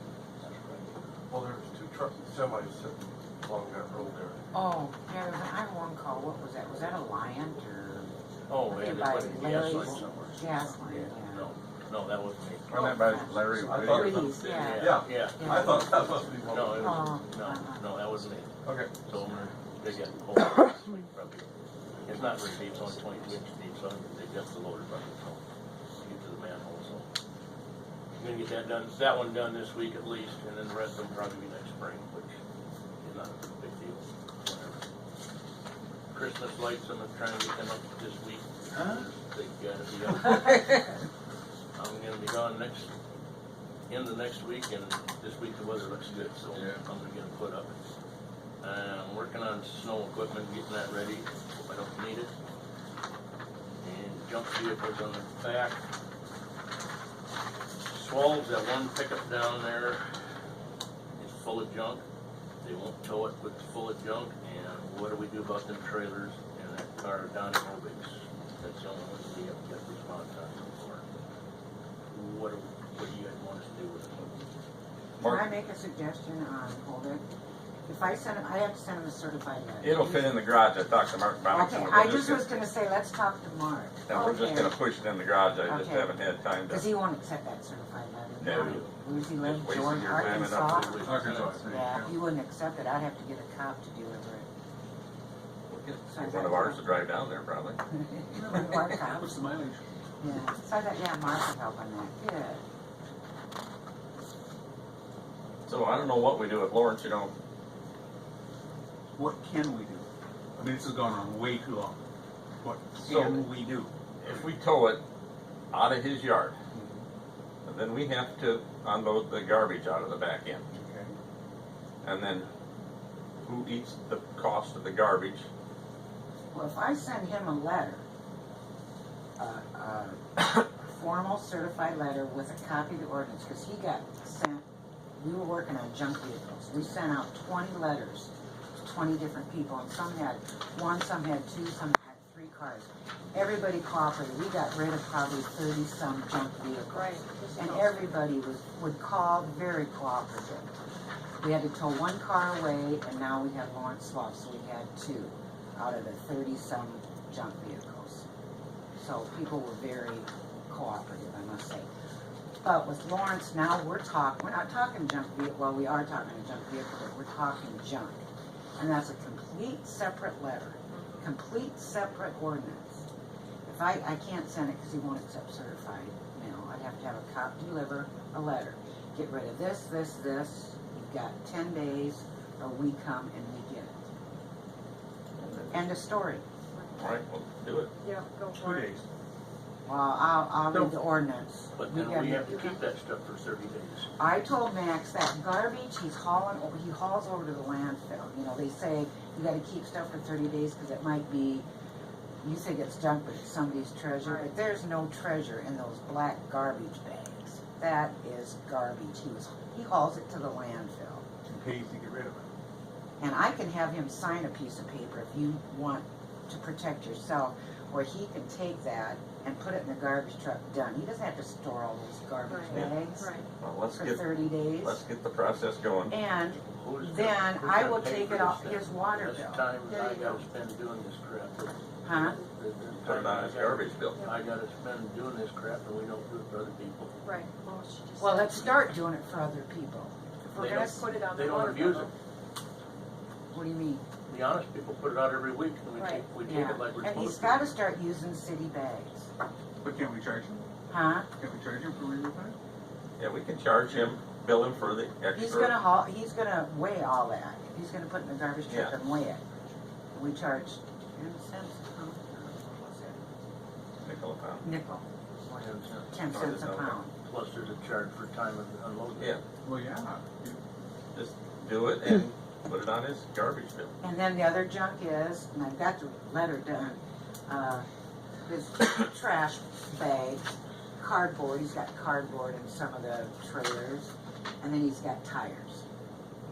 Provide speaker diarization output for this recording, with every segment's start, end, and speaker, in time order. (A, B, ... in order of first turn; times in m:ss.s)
0:00.4-0:01.1 A
0:01.3-0:04.5 B
0:04.5-0:08.1 C
0:08.5-0:12.8 A
0:08.7-0:11.5 C
0:09.7-0:10.1 B
0:12.7-0:14.2 D
0:12.7-0:16.2 C
0:13.5-0:17.2 B
0:14.3-0:15.9 A
0:16.4-0:21.5 A
0:16.7-0:17.9 C
0:18.6-0:19.0 B
0:22.0-0:25.4 A
0:26.0-0:27.1 A
0:28.2-0:32.3 A
0:33.0-0:34.8 A
0:36.1-0:41.0 A
0:41.8-0:42.9 A
0:43.9-0:47.8 A
0:48.6-0:52.3 A
0:53.8-0:55.8 A
0:57.8-1:00.1 A
1:01.2-1:02.0 A
1:02.6-1:11.1 A
1:12.1-1:14.4 A
1:15.2-1:15.4 D
1:15.2-1:17.2 C
1:17.9-1:20.5 C
1:19.8-1:22.5 D
1:21.5-1:24.8 C
1:24.1-1:26.9 D
1:25.6-1:26.2 C
1:26.7-1:31.0 C
1:28.4-1:28.9 D
1:28.6-1:28.9 A
1:29.4-1:31.2 D
1:30.2-1:31.9 A
1:31.0-1:32.1 E
1:31.6-1:34.5 C
1:35.7-1:37.8 D
1:36.1-1:36.9 C
1:37.9-1:39.5 C
1:38.3-1:39.8 E
1:40.2-1:42.6 C
1:45.7-1:47.3 D
1:49.2-1:50.1 E
1:50.6-1:52.0 E
1:52.6-1:53.9 E
1:53.0-1:53.4 D
1:54.2-1:55.0 D
1:55.7-1:56.6 D
1:56.7-1:57.0 E
1:57.6-2:00.6 D
2:00.7-2:01.1 E
2:02.0-2:02.5 D
2:03.4-2:05.4 D
2:06.5-2:08.0 C
2:09.4-2:14.6 C
2:15.2-2:18.3 C
2:18.8-2:30.8 C
2:26.9-2:28.2 F
2:31.4-2:38.2 C
2:39.0-2:41.9 C
2:42.6-2:48.2 C
2:48.8-2:53.0 C
2:50.9-2:51.3 F
2:53.7-3:04.0 C
3:05.4-3:05.9 D
3:05.7-3:06.4 C
3:07.0-3:07.9 D
3:08.0-3:09.0 F
3:08.6-3:09.0 E
3:09.9-3:12.8 C
3:11.8-3:14.1 A
3:14.2-3:21.7 C
3:22.4-3:31.2 C
3:24.2-3:24.5 F
3:31.4-3:32.5 E
3:33.2-3:45.0 C
3:42.4-3:43.5 F
3:42.7-3:43.0 D
3:43.6-3:46.2 D
3:46.1-3:49.7 C
3:46.6-3:57.2 A
3:49.8-3:50.4 F
3:52.0-3:52.4 C
3:53.0-3:54.3 D
3:57.2-3:58.7 F
3:58.2-4:01.1 C
4:00.6-4:02.1 A
4:00.6-4:02.1 F
4:03.5-4:04.0 C
4:04.3-4:07.8 A
4:06.0-4:06.3 F
4:06.4-4:09.3 C
4:09.8-4:10.7 E
4:10.9-4:11.3 C
4:11.3-4:12.6 E
4:13.2-4:15.8 D
4:15.3-4:19.4 C
4:18.7-4:18.9 D
4:20.2-4:23.3 C
4:24.0-4:24.6 D
4:24.6-4:25.1 C
4:25.4-4:26.3 A
4:26.1-4:27.1 C
4:26.3-4:27.0 D
4:27.2-4:29.4 A
4:29.6-4:30.6 E
4:31.1-4:33.9 D
4:34.0-4:37.9 C
4:38.5-4:40.4 C
4:41.0-4:45.8 C